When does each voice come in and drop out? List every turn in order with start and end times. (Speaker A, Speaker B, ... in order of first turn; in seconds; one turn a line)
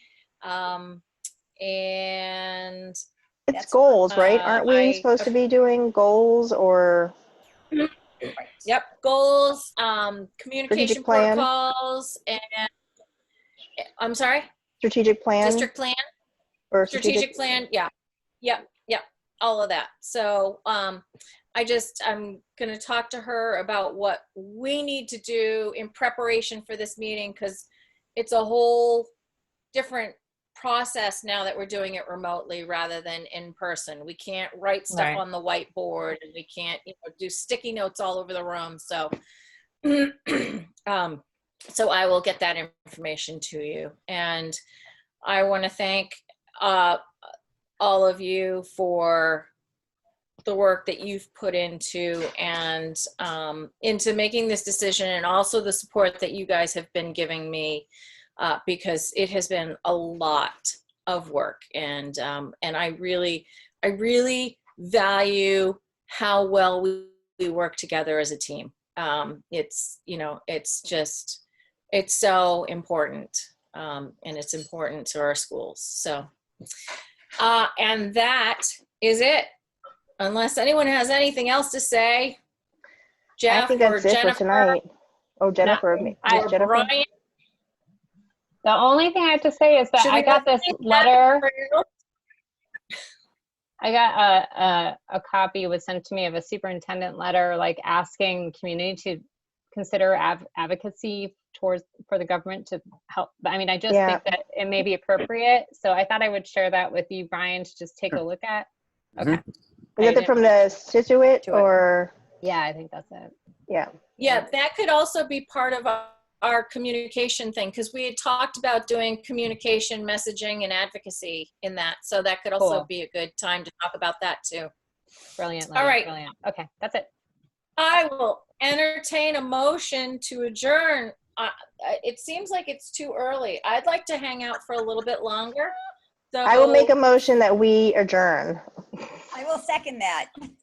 Speaker A: 0.4-1.0
Speaker A: 1.6-3.0
Speaker B: 3.5-7.1
Speaker C: 3.5-4.0
Speaker A: 4.1-5.3
Speaker C: 8.3-8.6
Speaker A: 8.6-12.7
Speaker B: 10.7-11.5
Speaker A: 14.0-14.5
Speaker B: 14.8-15.7
Speaker A: 15.4-16.0
Speaker B: 16.7-17.3
Speaker A: 16.9-17.9
Speaker A: 18.4-29.1
Speaker A: 29.7-39.1
Speaker D: 34.9-35.2
Speaker A: 39.8-44.6
Speaker A: 45.2-47.0
Speaker A: 47.8-49.5
Speaker A: 50.5-57.9
Speaker A: 58.4-71.4
Speaker A: 71.9-76.3
Speaker A: 77.4-79.5
Speaker A: 80.2-82.4
Speaker A: 83.4-84.8
Speaker B: 83.5-84.9
Speaker B: 85.4-86.9
Speaker A: 85.6-87.1
Speaker D: 88.6-91.5
Speaker A: 90.0-91.8
Speaker D: 93.8-109.4
Speaker B: 103.9-104.2
Speaker B: 110.0-112.1
Speaker D: 110.0-110.3
Speaker D: 112.4-113.3
Speaker A: 114.2-124.7
Speaker D: 122.6-122.9
Speaker D: 125.4-127.1
Speaker A: 125.8-126.1
Speaker A: 127.8-135.7
Speaker A: 136.3-136.9
Speaker B: 136.4-138.6
Speaker C: 139.3-140.3